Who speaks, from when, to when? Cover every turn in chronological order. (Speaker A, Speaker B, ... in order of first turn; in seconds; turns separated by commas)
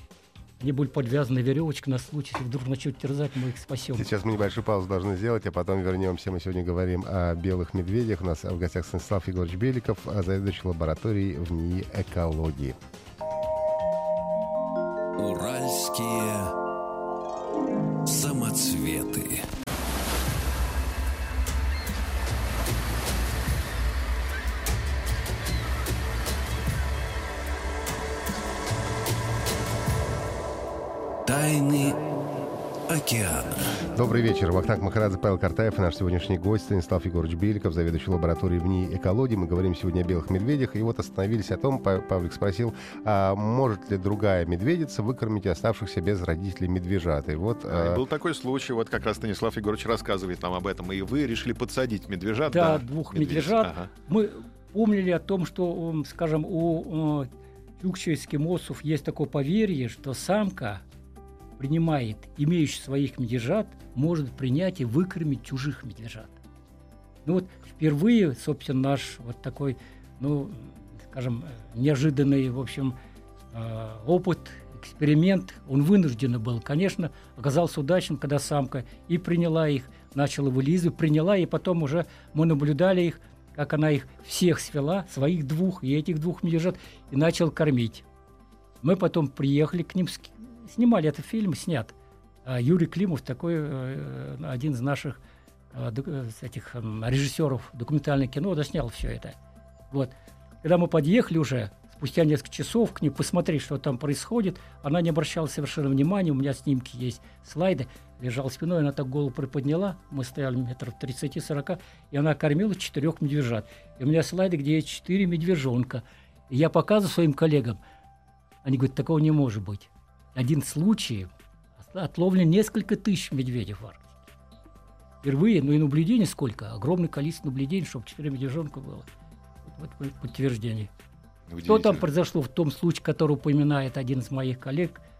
Speaker A: 0.6-4.1, Speaker B: 3.9-12.8, Speaker C: 15.2-16.5, Speaker C: 18.0-19.5, Speaker C: 31.2-32.1, Speaker C: 32.9-33.9, Speaker B: 33.9-48.0, Speaker D: 47.7-53.9, Speaker A: 52.5-57.3, Speaker A: 57.8-60.8, Speaker A: 61.6-66.4, Speaker A: 67.2-73.0, Speaker A: 73.5-88.0, Speaker A: 88.8-95.2, Speaker A: 95.7-99.4, Speaker A: 99.9-117.8, Speaker A: 118.6-124.2, Speaker A: 125.2-129.1, Speaker A: 129.7-130.9, Speaker D: 131.5-132.0, Speaker A: 131.7-135.0